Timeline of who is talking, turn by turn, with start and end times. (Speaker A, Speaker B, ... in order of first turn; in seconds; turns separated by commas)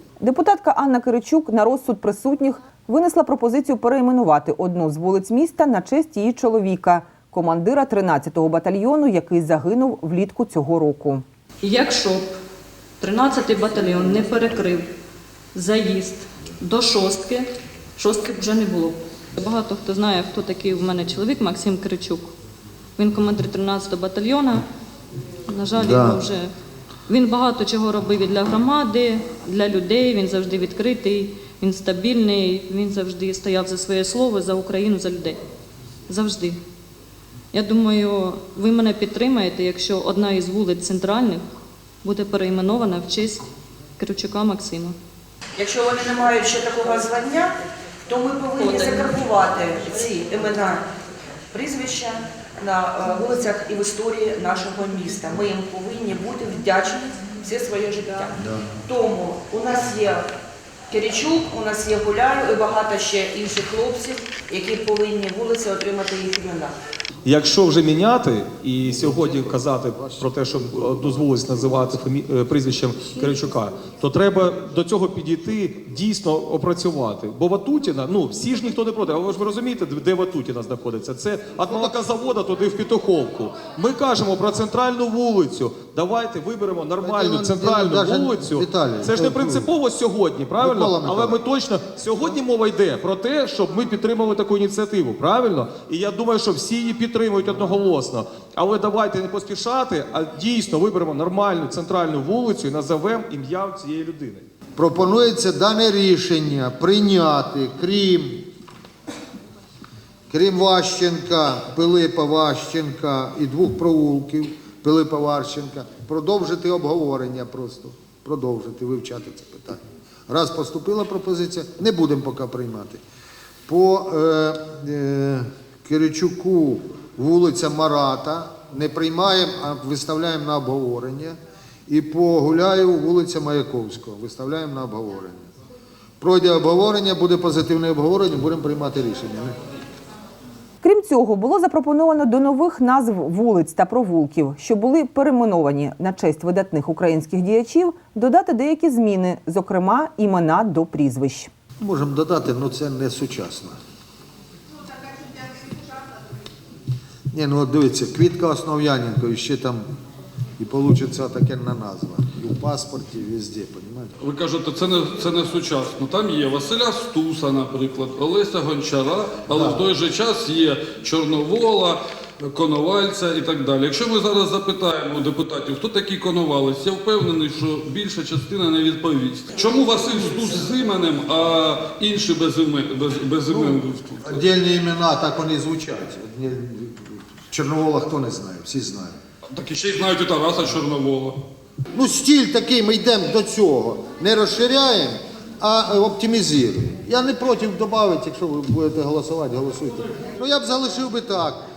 Speaker A: 0.2-11.2, Speaker B: 11.6-12.3, Speaker B: 13.0-14.9, Speaker B: 15.5-22.3, Speaker B: 23.0-24.7, Speaker B: 25.5-26.5, Speaker C: 25.8-26.2, Speaker B: 27.1-35.4, Speaker B: 36.1-36.6, Speaker B: 37.5-41.4, Speaker B: 42.0-45.0, Speaker D: 45.6-47.5, Speaker D: 48.1-50.9, Speaker B: 48.6-49.1, Speaker D: 51.5-60.3, Speaker D: 60.9-66.8, Speaker E: 67.2-104.5, Speaker C: 69.1-70.3, Speaker C: 81.6-82.0, Speaker C: 87.0-89.7, Speaker C: 90.6-91.4, Speaker C: 104.8-108.5, Speaker C: 110.3-123.0, Speaker C: 123.7-131.4, Speaker C: 131.9-135.5, Speaker C: 136.2-139.6, Speaker A: 140.8-151.5, Speaker C: 151.8-153.8, Speaker C: 157.3-159.8, Speaker C: 160.6-164.1, Speaker F: 164.2-184.4, Speaker C: 169.6-169.8, Speaker C: 183.5-189.2, Speaker F: 189.5-191.4, Speaker C: 191.9-201.6